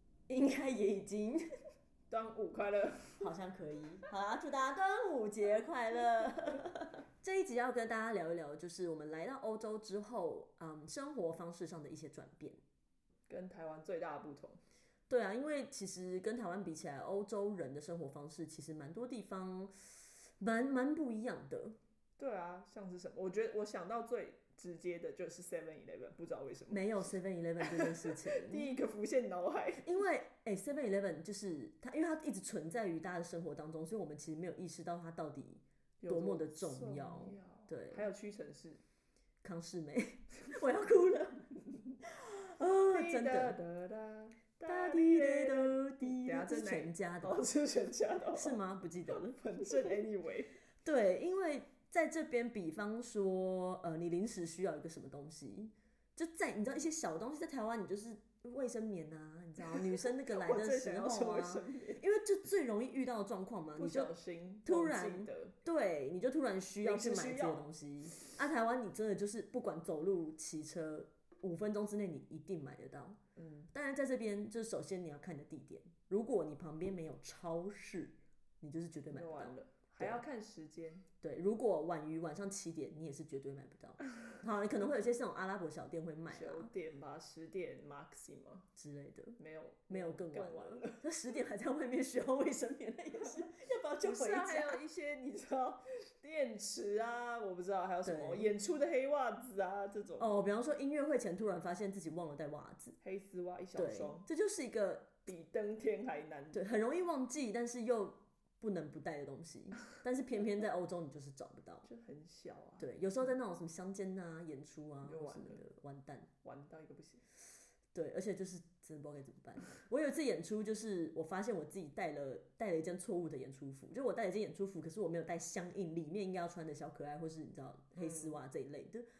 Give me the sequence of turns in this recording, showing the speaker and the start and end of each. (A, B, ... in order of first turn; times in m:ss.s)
0:00.3-0:01.4 A
0:02.1-0:03.3 B
0:03.2-0:12.6 A
0:13.3-0:14.6 B
0:15.1-0:21.8 A
0:22.2-0:26.8 B
0:26.7-0:28.8 A
0:27.6-0:30.0 B
0:29.8-0:38.1 A
0:36.0-0:38.8 B
0:39.4-0:41.5 A
0:42.1-0:43.6 A
0:42.9-0:50.5 B
0:44.6-0:47.4 A
0:48.3-0:49.9 A
0:50.8-1:04.1 A
0:59.7-1:02.0 B
1:03.8-1:05.5 B
1:04.6-1:13.2 A
1:06.8-1:07.7 B
1:13.4-1:13.7 B
1:13.7-1:20.2 A
1:19.1-1:21.1 B
1:21.2-1:26.7 A
1:26.3-1:28.6 B
1:28.8-1:29.4 A
1:29.4-1:31.0 B
1:29.9-1:34.8 A
1:34.0-1:40.4 B
1:38.0-1:38.5 A
1:40.2-1:43.0 A
1:43.0-1:44.3 B
1:43.8-1:45.1 A
1:45.2-1:46.6 B
1:46.5-1:51.9 A
1:51.8-1:52.9 B
1:52.8-1:56.3 A
1:55.0-1:55.6 B
1:56.4-1:57.2 B
1:57.9-2:09.0 A
2:08.0-2:08.4 B